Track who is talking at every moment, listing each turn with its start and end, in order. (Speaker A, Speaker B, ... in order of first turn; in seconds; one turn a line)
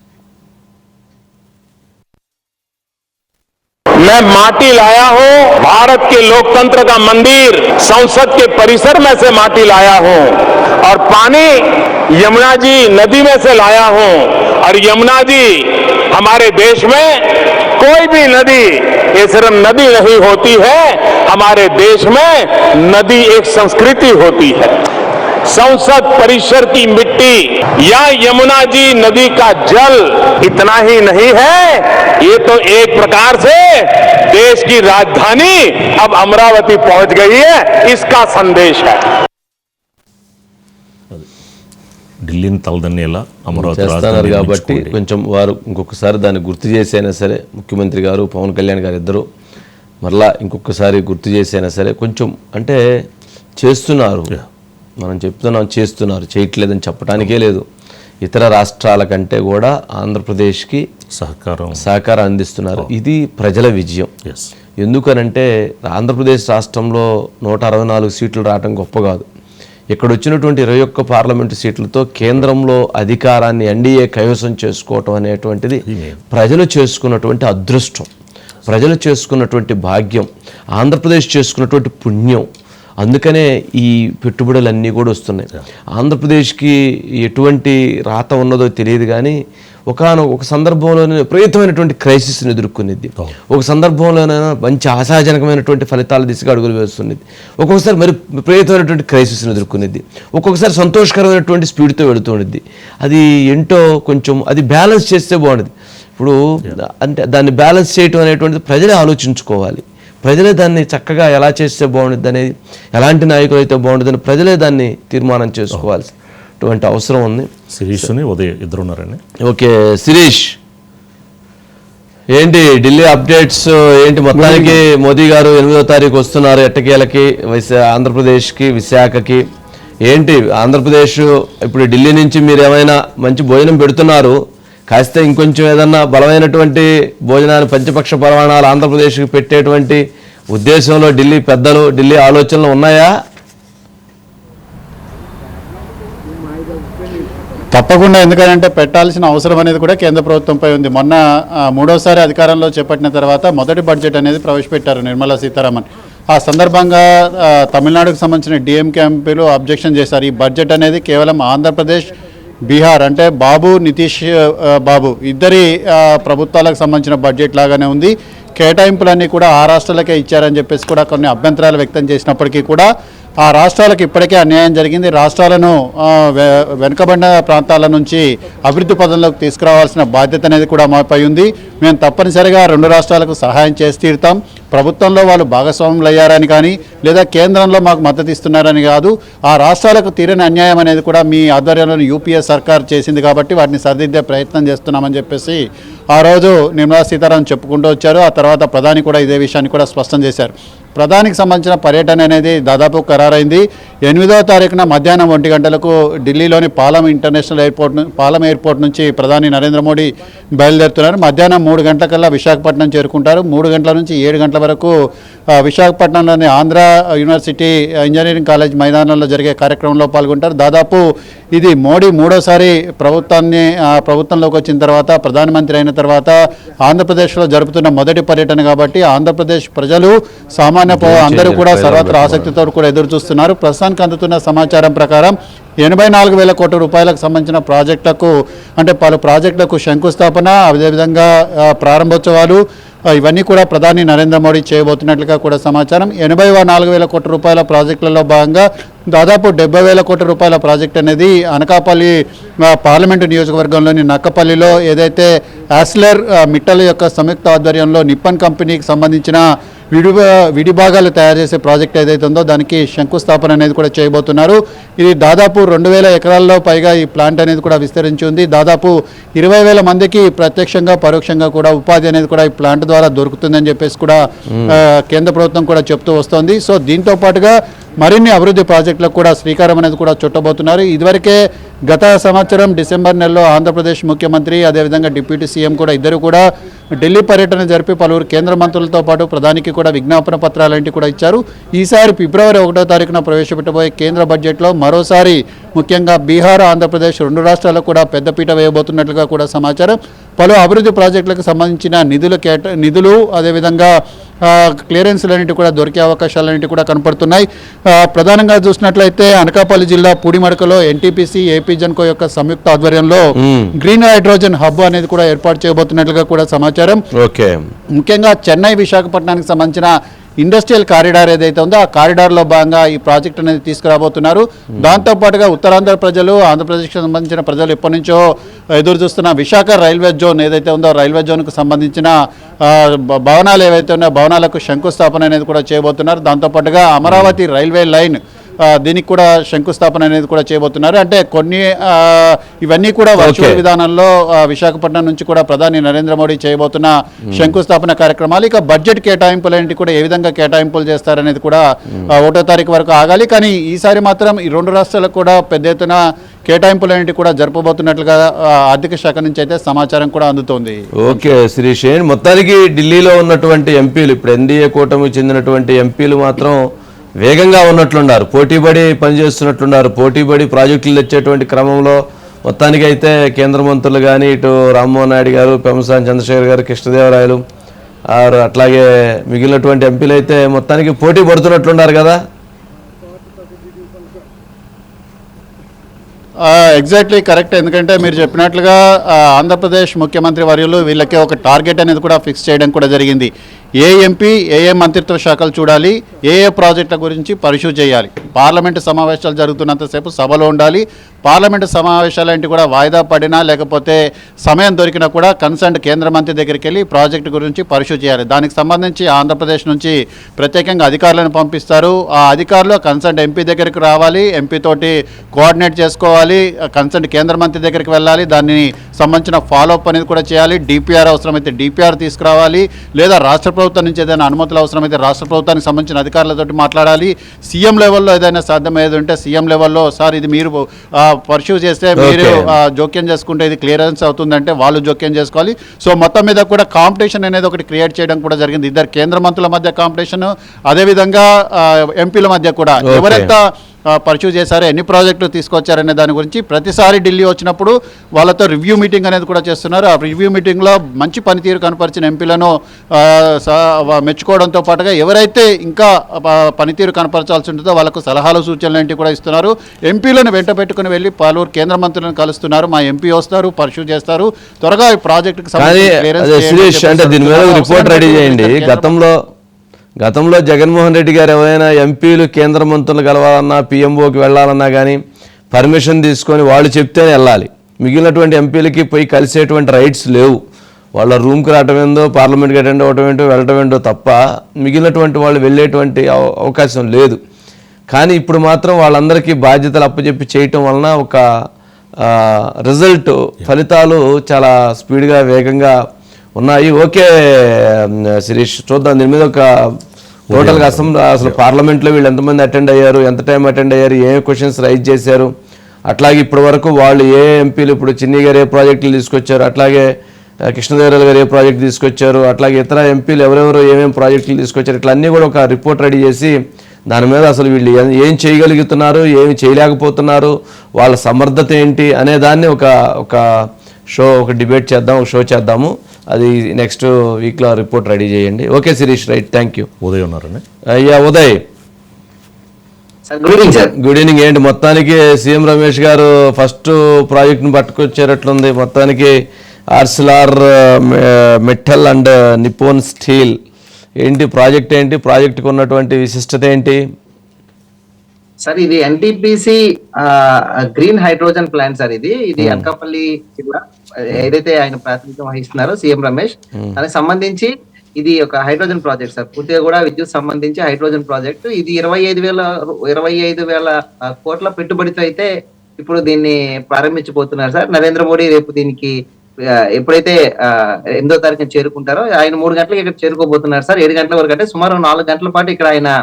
Speaker A: 4.0-24.8
Speaker A: 25.5-39.1
Speaker B: 42.2-44.9
Speaker C: 43.5-49.2
Speaker C: 50.0-52.8
Speaker C: 53.6-54.3
Speaker C: 55.0-57.6
Speaker C: 58.2-60.8
Speaker B: 61.1-61.8
Speaker C: 61.7-64.1
Speaker C: 64.8-69.2
Speaker C: 69.9-78.1
Speaker B: 75.8-76.2
Speaker C: 78.7-82.5
Speaker C: 83.0-89.4
Speaker C: 89.9-118.1
Speaker B: 117.7-119.2
Speaker C: 119.4-120.5
Speaker C: 122.4-129.4
Speaker C: 130.1-134.3
Speaker C: 134.9-143.1
Speaker D: 147.7-151.2
Speaker D: 151.7-162.1
Speaker D: 162.7-172.9
Speaker D: 173.4-195.6
Speaker D: 196.1-214.9
Speaker D: 215.5-242.6
Speaker C: 230.9-232.5
Speaker D: 243.2-252.1
Speaker D: 252.7-286.4
Speaker C: 274.5-274.8
Speaker D: 287.0-303.9
Speaker D: 304.5-313.2
Speaker C: 313.4-313.7
Speaker D: 313.7-317.0
Speaker C: 317.1-317.6
Speaker D: 318.0-328.2
Speaker D: 328.7-332.1
Speaker D: 332.6-361.3
Speaker C: 337.1-337.3
Speaker C: 343.2-343.6
Speaker C: 361.0-366.6
Speaker C: 367.2-377.4
Speaker C: 378.1-382.2
Speaker D: 386.4-468.8
Speaker C: 432.0-432.5
Speaker C: 442.8-443.3
Speaker C: 465.6-469.2
Speaker C: 470.0-475.0
Speaker C: 475.5-480.4
Speaker C: 480.9-487.2
Speaker C: 487.9-491.2
Speaker C: 492.0-495.7
Speaker C: 496.4-499.5
Speaker B: 500.3-501.4
Speaker C: 500.3-505.3
Speaker C: 505.9-509.9
Speaker C: 510.4-516.3
Speaker C: 516.9-523.2
Speaker C: 523.9-529.7
Speaker B: 529.8-530.4
Speaker C: 530.7-531.4
Speaker E: 533.1-533.7
Speaker C: 533.4-539.1
Speaker C: 539.7-543.4
Speaker C: 544.0-546.8
Speaker E: 548.4-568.9
Speaker C: 552.4-552.7
Speaker E: 569.8-575.9